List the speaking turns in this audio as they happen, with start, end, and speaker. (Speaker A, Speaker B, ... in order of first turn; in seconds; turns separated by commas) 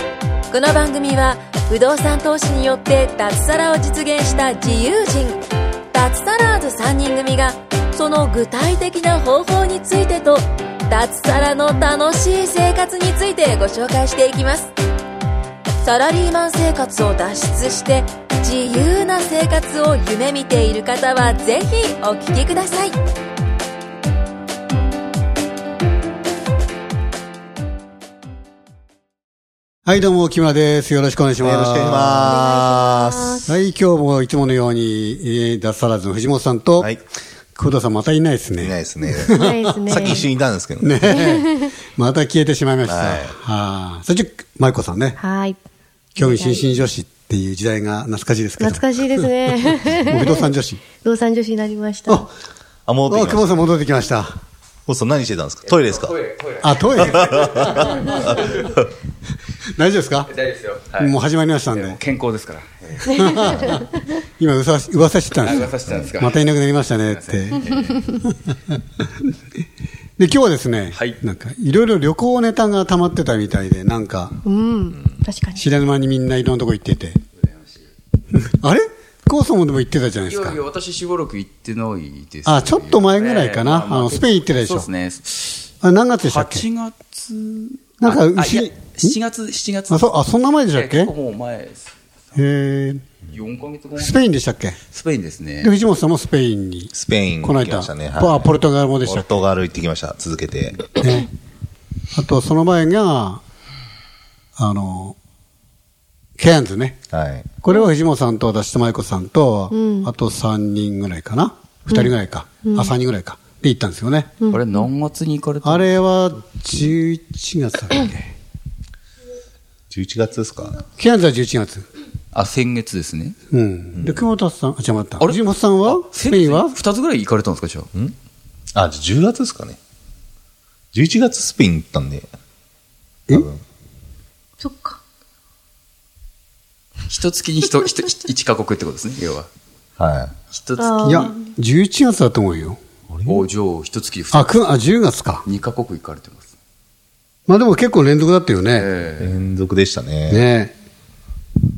Speaker A: 0.5-14.7, Speaker A: 15.8-22.9, Speaker B: 29.9-32.4, Speaker C: 31.4-33.5, Speaker D: 32.2-33.5, Speaker B: 33.5-36.9, Speaker B: 37.5-40.2, Speaker C: 38.6-41.1, Speaker D: 39.3-40.3, Speaker B: 40.8-45.2, Speaker D: 41.0-41.7, Speaker C: 42.9-43.4, Speaker D: 45.2-45.6, Speaker D: 46.1-46.7, Speaker B: 46.2-49.3, Speaker D: 48.6-52.2, Speaker B: 50.0-50.8, Speaker C: 52.9-53.7, Speaker B: 53.1-54.4, Speaker C: 54.9-56.2, Speaker E: 55.6-58.7, Speaker B: 56.6-58.4, Speaker C: 57.0-58.9, Speaker B: 59.6-60.3, Speaker E: 60.3-61.1, Speaker B: 61.0-62.0, Speaker E: 61.7-63.8, Speaker B: 63.1-67.6, Speaker E: 65.4-68.2, Speaker B: 70.2-74.4, Speaker E: 70.9-71.2, Speaker D: 74.4-75.6, Speaker B: 75.5-77.2, Speaker E: 77.4-77.9, Speaker B: 78.3-80.6, Speaker E: 80.2-85.7, Speaker B: 82.4-84.9, Speaker B: 85.8-86.7, Speaker E: 86.2-90.2, Speaker B: 88.0-89.2, Speaker B: 89.9-91.1, Speaker E: 90.7-91.9, Speaker B: 92.3-93.0, Speaker E: 93.3-94.2, Speaker B: 93.9-94.8, Speaker E: 94.9-95.7, Speaker B: 95.6-99.3, Speaker C: 96.9-100.9, Speaker B: 100.9-101.3, Speaker B: 102.1-103.4, Speaker B: 104.6-105.1, Speaker B: 106.4-107.0, Speaker C: 107.1-107.5, Speaker B: 107.6-114.3, Speaker D: 109.7-110.1, Speaker D: 112.6-112.9, Speaker D: 114.4-114.9, Speaker E: 114.5-115.9, Speaker B: 115.6-118.3, Speaker C: 119.9-120.8, Speaker B: 121.0-121.9, Speaker E: 122.3-123.4, Speaker B: 123.5-126.8, Speaker C: 123.9-124.2, Speaker E: 125.2-127.9, Speaker C: 128.7-129.8, Speaker C: 130.9-132.3, Speaker C: 133.3-133.6, Speaker D: 134.6-135.0, Speaker E: 137.1-139.5, Speaker C: 140.0-140.3, Speaker E: 140.5-141.3, Speaker D: 140.8-141.5, Speaker B: 141.0-142.8, Speaker C: 143.1-143.5, Speaker E: 143.2-144.6, Speaker B: 144.3-145.4, Speaker E: 145.4-146.5, Speaker B: 147.5-148.9, Speaker E: 148.7-149.4, Speaker C: 149.2-150.4, Speaker B: 150.3-150.7